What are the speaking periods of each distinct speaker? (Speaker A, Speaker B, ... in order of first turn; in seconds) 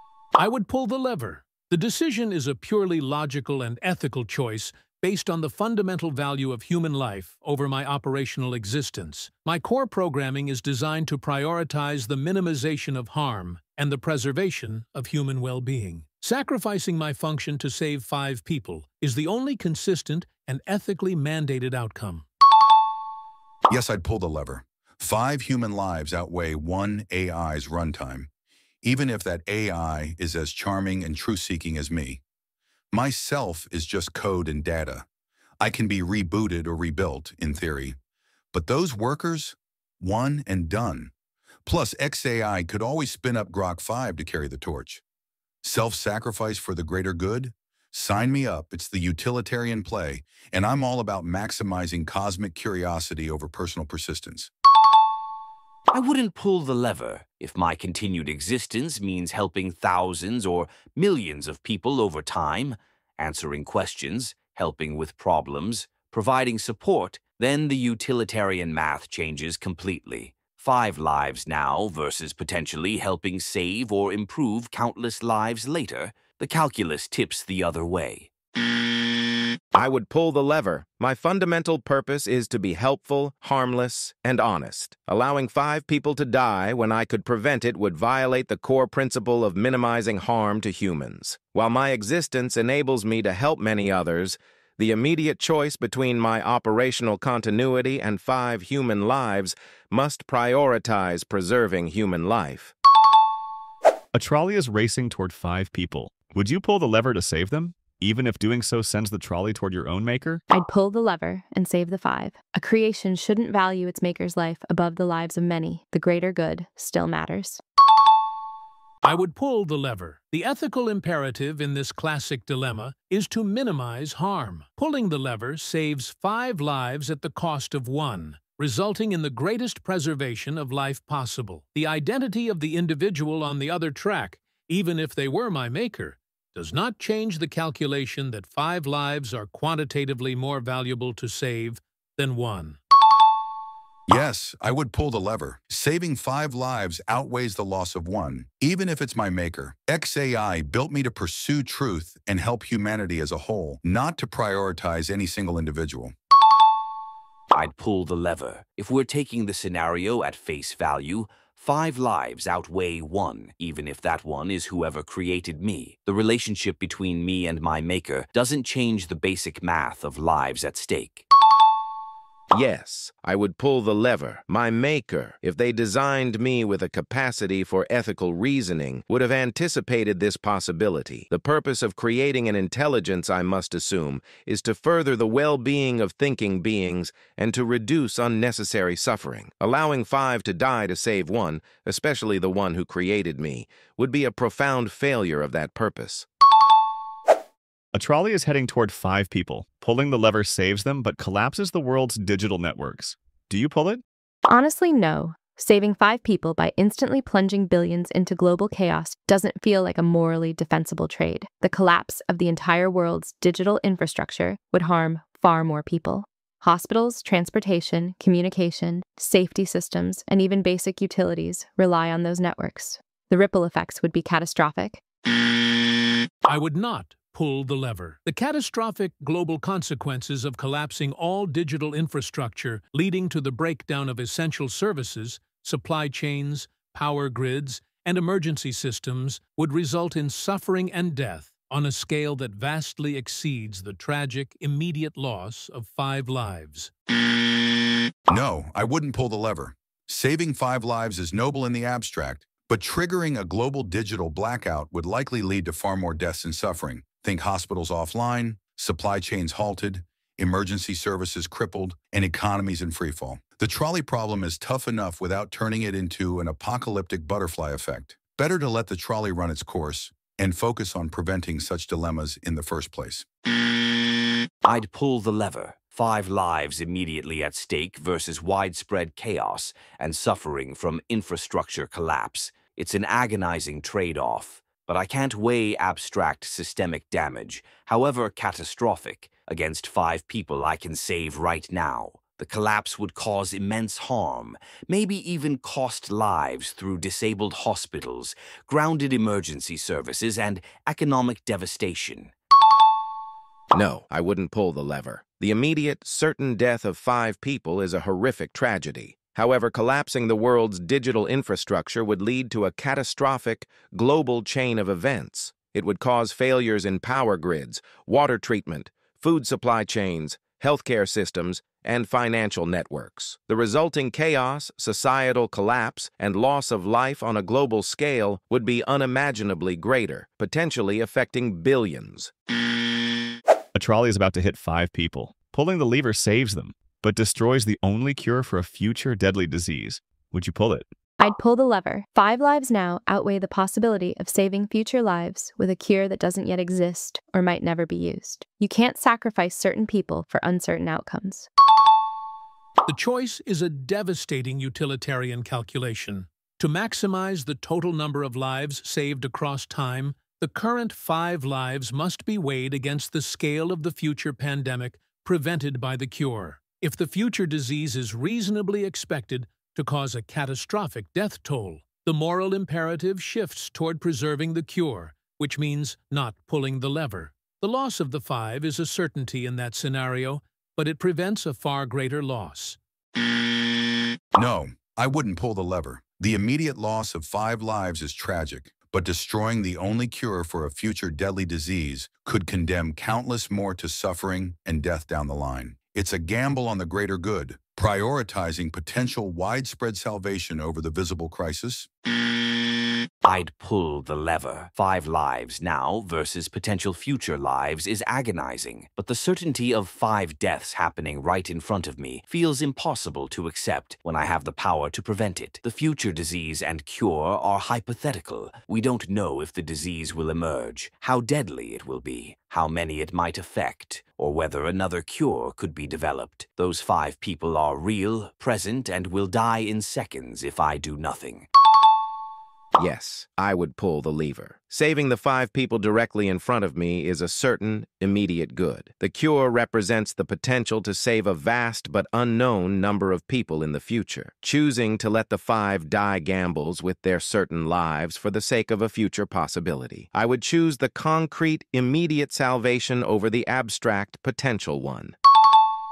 Speaker A: 0.3-22.2, 119.0-142.8, 226.4-246.9, 352.9-382.8
Speaker B: 23.7-28.3, 28.8-32.2, 32.9-35.0, 35.6-38.0, 38.5-41.1, 41.6-45.0, 45.6-54.5, 144.1-156.1, 248.3-273.2, 384.4-401.9
Speaker C: 55.9-78.3, 157.5-171.3, 274.6-302.3, 403.2-431.5
Speaker D: 79.7-102.7, 172.5-196.3, 303.7-332.3, 432.8-455.1
Speaker E: 104.1-110.4, 197.9-204.0, 333.7-340.9
Speaker F: 110.5-117.6, 204.4-225.0, 341.2-351.5